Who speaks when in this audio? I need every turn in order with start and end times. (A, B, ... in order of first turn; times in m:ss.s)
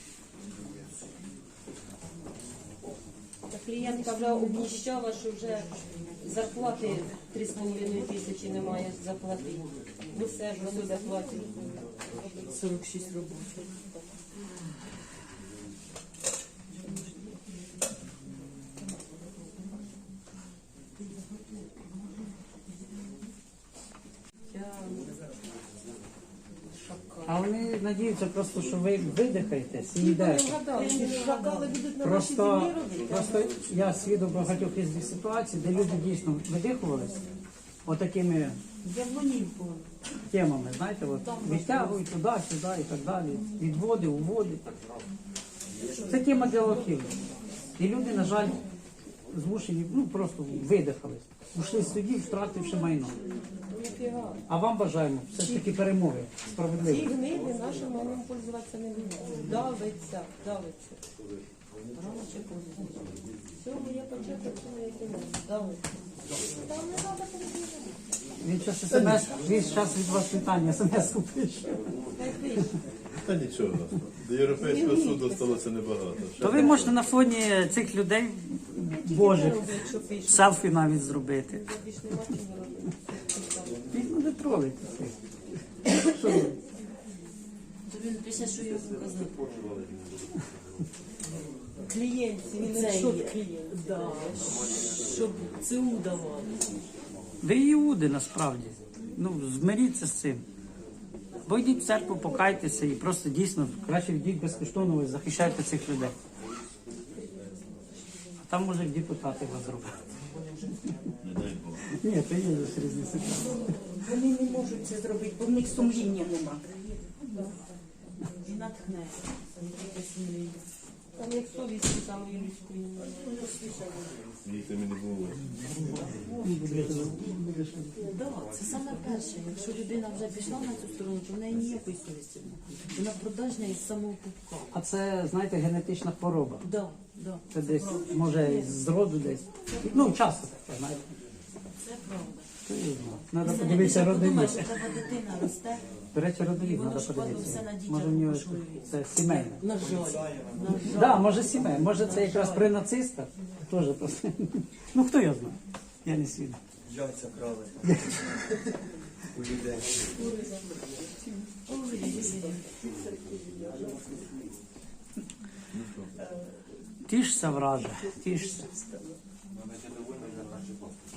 0:03.5-0:12.6 A
0:03.8-0:04.8 B
0:05.6-0:08.7 B
0:10.6-0:11.3 B
0:12.5-0:13.7 B
0:16.7-0:17.4 B
0:21.1-0:21.8 B
0:24.5-0:25.0 A
0:26.9-0:27.2 A
0:27.2-0:30.5 C
0:30.0-0:33.5 A
0:30.7-0:33.0 B
0:32.0-0:37.2 C
0:37.8-0:38.6 C
0:38.8-0:39.9 B
0:40.3-0:44.6 C
0:41.2-0:42.0 B
0:46.0-0:47.1 C
0:47.8-0:48.6 C
0:49.3-0:53.1 C
0:53.7-0:54.4 A
0:54.5-0:57.1 C
0:55.4-0:55.8 A
0:56.8-1:01.0 A
1:01.9-1:03.1 B
1:03.6-1:05.8 A
1:06.5-1:07.9 A
1:08.4-1:11.8 C
1:08.9-1:09.3 D
1:12.2-1:12.8 A
1:13.2-1:17.0 D
1:14.5-1:15.5 A
1:16.4-1:19.7 C
1:16.5-1:16.8 A
1:18.8-1:20.7 A
1:20.2-1:21.6 C
1:21.5-1:23.8 A
1:23.9-1:25.1 C
1:26.0-1:26.5 C
1:27.9-1:29.4 B
1:31.8-1:34.3 A
1:32.6-1:36.6 B
1:37.4-1:40.4 C
1:41.4-1:46.1 C
1:48.4-1:50.0 C
1:51.2-1:51.8 D
1:51.8-1:53.5 C
1:54.0-1:56.6 E
1:58.3-2:00.6 B
2:01.2-2:03.3 A
2:04.4-2:06.1 D
2:06.4-2:07.9 C
2:08.0-2:14.7 B
2:14.7-2:16.6 C
2:16.6-2:18.7 B
2:17.5-2:21.1 C
2:19.7-2:20.1 B
2:21.8-2:22.5 B
2:22.6-2:24.7 C
2:23.3-2:25.8 B
2:26.1-2:29.6 C
2:26.5-2:32.7 B
2:29.8-2:30.7 F
2:30.9-2:36.6 C
2:36.9-2:37.7 F
2:37.8-2:38.2 C
2:39.4-2:39.6 F
2:41.7-2:42.6 B
2:42.2-2:44.5 E
2:45.7-2:46.1 D
2:46.2-2:46.5 E
2:47.0-2:48.6 C
2:47.9-2:49.1 E